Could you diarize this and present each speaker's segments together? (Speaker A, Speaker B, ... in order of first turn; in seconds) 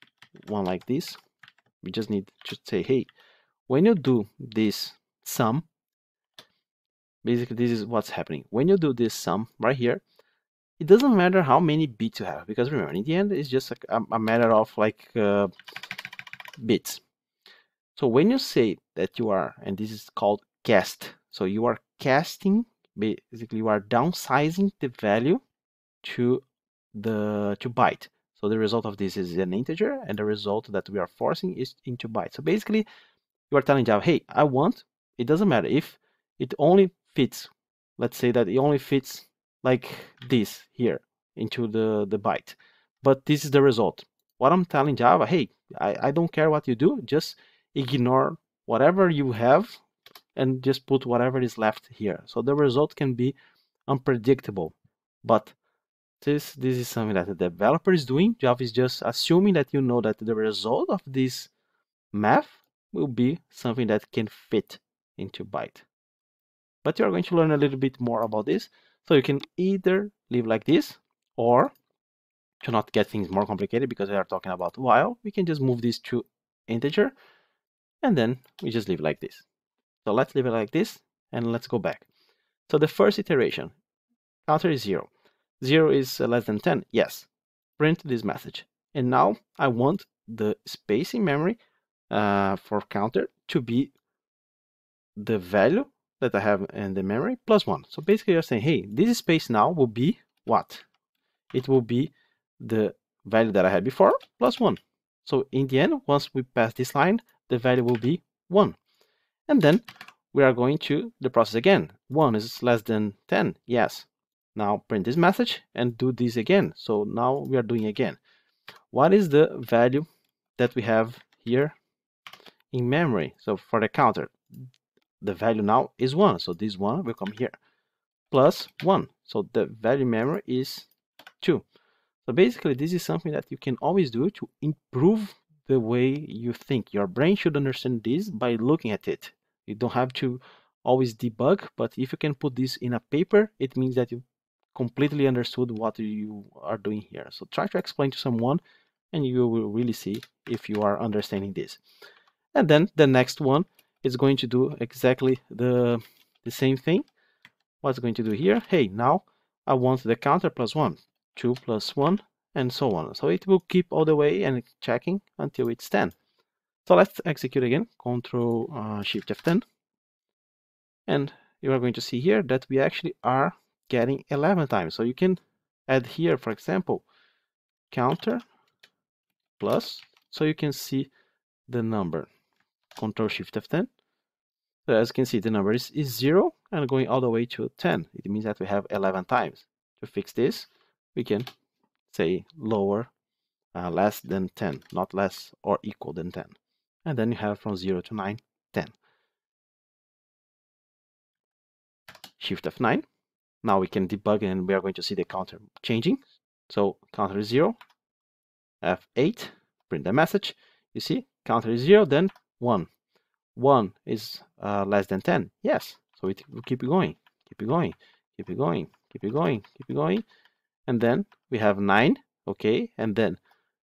Speaker A: 0.4-1.2, 1.8-3.1, 3.7-5.6, 7.2-10.0, 10.8-15.5, 16.6-17.0, 17.9-25.4, 26.0-32.9, 33.5-49.8, 50.4-53.3, 53.9-55.5, 56.2-61.5, 62.1-65.8, 66.8-71.7, 72.6-77.1, 78.0-79.4, 80.0-82.1, 82.7-83.7, 84.5-85.1, 85.6-91.6, 92.1-93.9, 95.2-100.8, 101.5-108.8, 109.5-118.2, 118.9-120.0, 120.6-121.7, 122.7-124.4, 125.2-127.5, 128.3-130.9, 132.2-144.2, 144.7-148.6, 149.1-151.8, 152.5-157.1, 157.8-166.1, 166.8-169.6, 171.1-177.0, 177.9-178.4, 179.6-181.1, 181.7-182.3, 183.0-183.9, 184.8-191.5, 192.1-193.1, 193.7-198.9, 202.4-203.0, 203.6-207.8, 208.8-212.9, 213.5-220.2, 220.9-223.4